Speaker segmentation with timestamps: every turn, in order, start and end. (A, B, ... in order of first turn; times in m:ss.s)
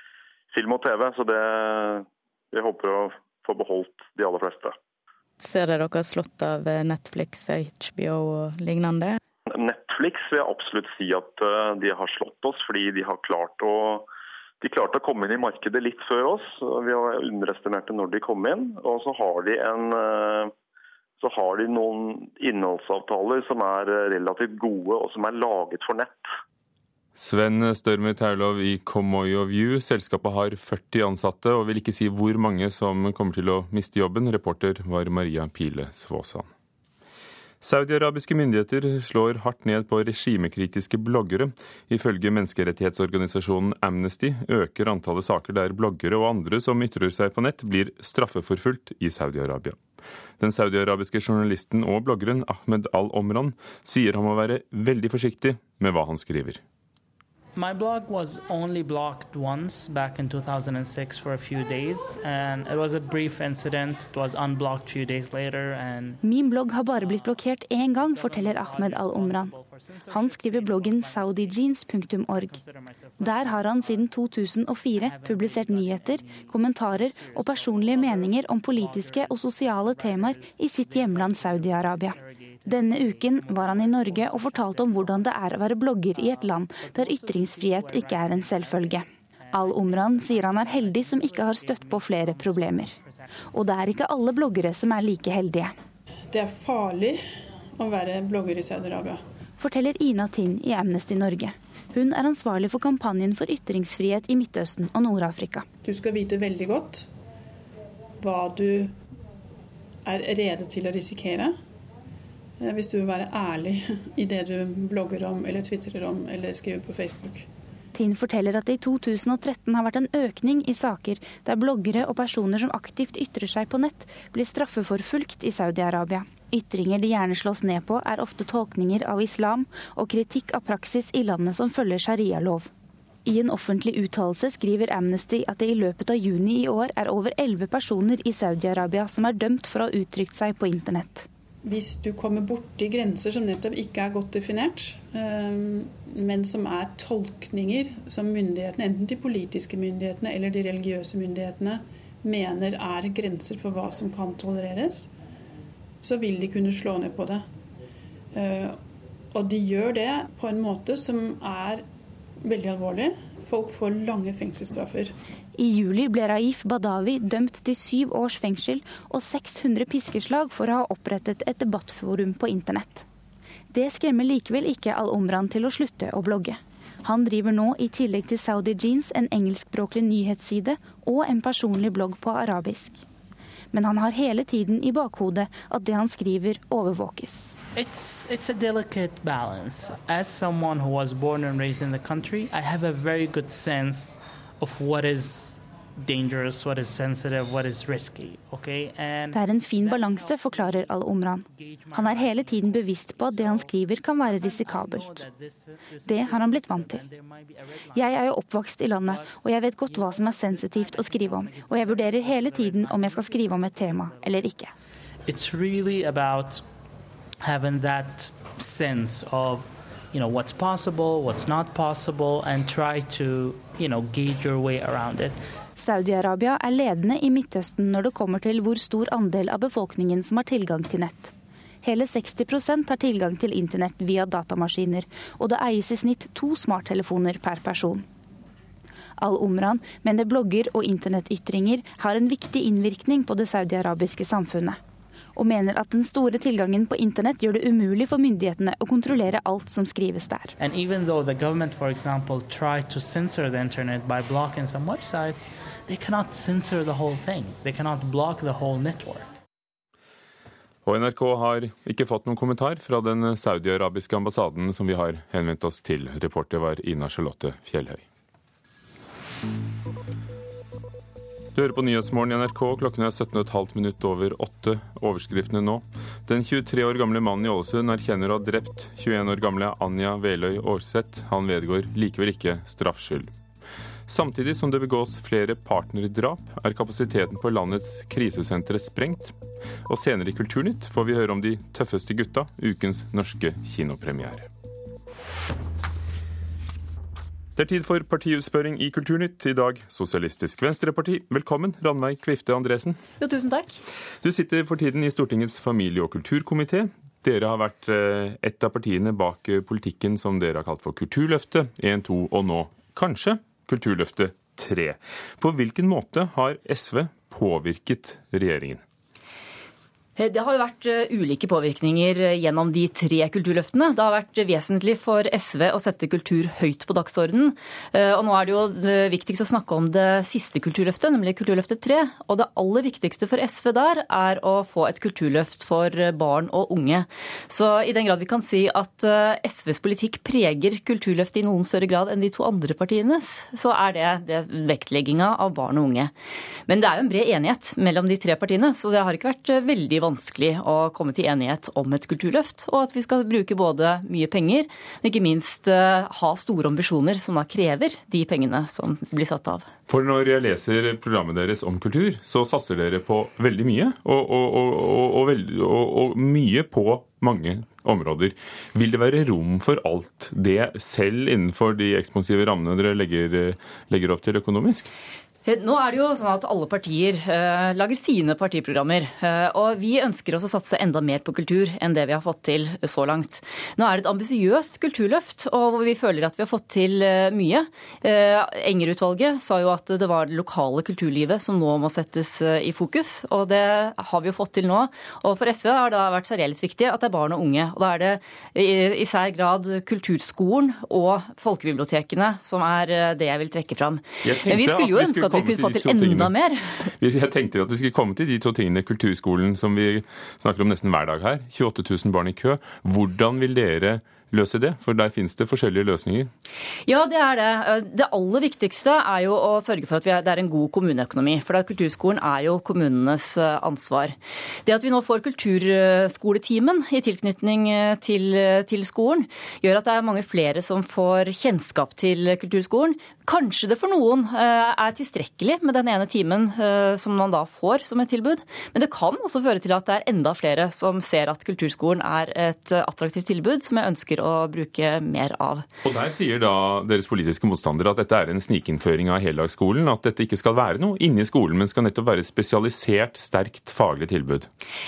0:00.5-0:04.8 A
0:05.4-0:09.2 B
0:09.5-0:14.1 A
0:14.6-0:20.5 A
0:21.2-0:26.3 A
0:27.2-0:36.5 C
0:37.6-0:49.8 C
0:50.4-0:56.6 C
0:57.6-1:06.2 D
1:06.2-1:09.6 E
1:06.9-1:33.4 D
1:10.1-1:12.6 E
1:13.2-1:33.0 E
1:33.5-1:35.7 E
1:36.3-1:37.2 F
1:37.8-1:39.2 F
1:39.6-1:45.7 E
1:45.8-1:47.1 F
1:48.2-1:49.0 F
1:50.0-1:51.6 F
1:52.6-1:57.5 F
1:57.9-2:12.7 E
2:13.2-2:21.3 E
2:21.6-2:35.1 F
2:36.0-2:37.4 F
2:38.4-2:38.8 F
2:39.3-2:41.8 F
2:42.4-2:45.2 F
2:45.6-2:53.1 E
2:53.7-3:03.0 E
3:03.7-3:07.5 E
3:07.8-3:28.4 D
3:19.3-3:25.3 E
3:26.1-3:27.0 E
3:27.9-3:34.7 E
3:29.0-3:34.7 D
3:35.2-3:36.6 D
3:37.4-3:45.4 D
3:45.8-3:58.0 E
3:59.2-4:04.8 E
4:05.4-4:10.5 E
4:10.6-4:19.3 D
4:20.8-4:28.0 C
4:31.6-4:43.3 C
4:44.1-4:49.3 C
4:49.9-4:54.5 C
4:57.6-5:03.0 C
5:03.2-5:03.8 G
5:04.2-5:18.8 C
5:20.2-5:46.1 G
5:46.7-5:59.7 G
5:59.9-6:14.9 C
6:15.4-6:46.9 G
6:44.2-6:46.3 C
6:47.0-6:56.3 C
6:56.9-7:25.7 G
7:25.8-7:34.5 C